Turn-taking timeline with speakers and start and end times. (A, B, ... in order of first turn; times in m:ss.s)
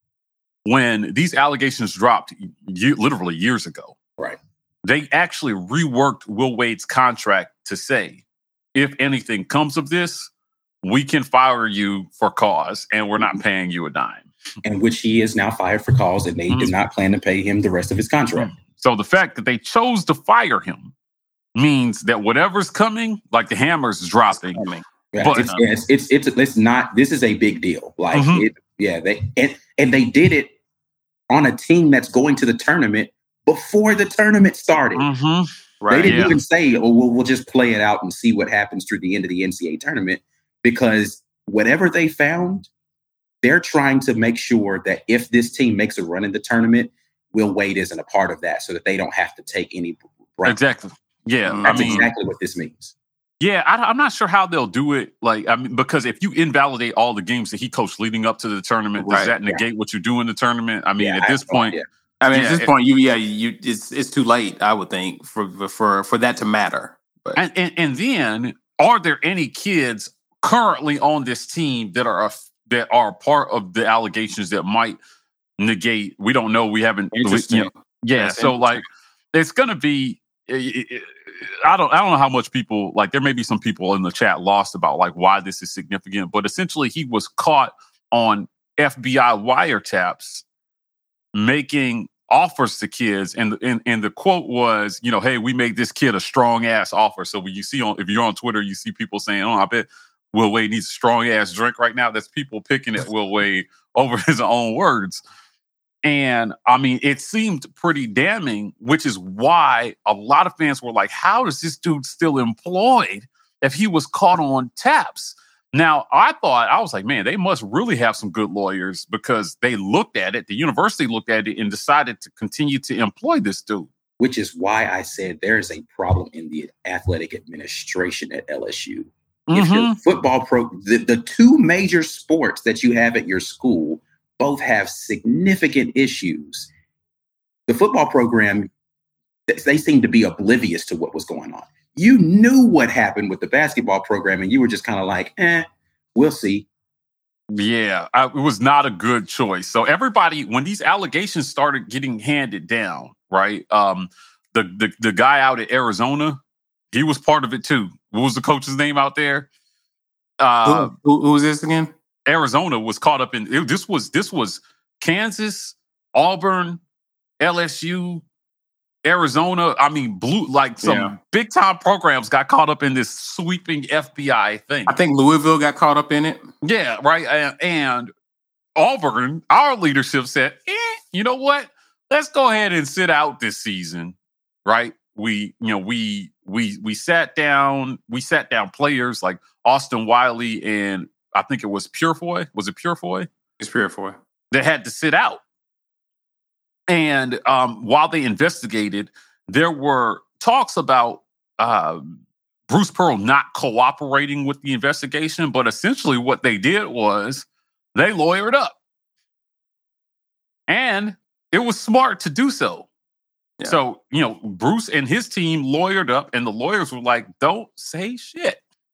0:00.6-0:04.0 A
0:04.8-0:08.2 A
0:08.8-0:10.3 A
0:10.8-0:14.3 A
0:14.6-0:18.5 B
0:18.4-0:20.9 A
0:21.6-0:24.6 A
0:24.3-0:25.6 C
0:25.1-0:30.5 B
0:25.2-0:25.5 A
0:28.1-0:28.5 A
0:31.3-0:35.1 B
0:35.0-0:35.5 A
0:35.8-0:36.3 C
0:35.9-0:42.7 B
0:36.0-0:36.4 A
0:43.4-0:50.6 B
0:50.4-0:52.1 A
0:51.5-0:52.1 C
0:51.6-0:52.9 B
0:53.4-1:01.8 A
0:59.0-0:59.3 C
1:01.0-1:01.8 B
1:02.2-1:07.4 C
1:02.3-1:02.7 A
1:07.4-1:15.0 A
1:15.6-1:30.4 A
1:17.1-1:18.8 C
1:31.4-1:45.2 A
1:46.0-2:03.9 A
2:04.2-2:16.7 B
2:09.5-2:10.0 A
2:17.7-2:18.7 B
2:19.5-2:26.7 B
2:27.5-2:36.4 A
2:36.9-2:39.5 A
2:40.4-2:40.9 A
2:40.6-2:41.9 C
2:42.3-2:46.8 A
2:47.4-2:48.2 A
2:49.0-2:55.0 A
2:50.8-2:51.1 C
2:54.9-2:56.5 C
2:56.6-2:58.1 A
2:58.8-3:13.3 A
3:13.6-3:14.2 C
3:14.5-3:15.4 A
3:16.9-3:28.8 A
3:30.7-3:32.9 A
3:33.6-3:38.6 A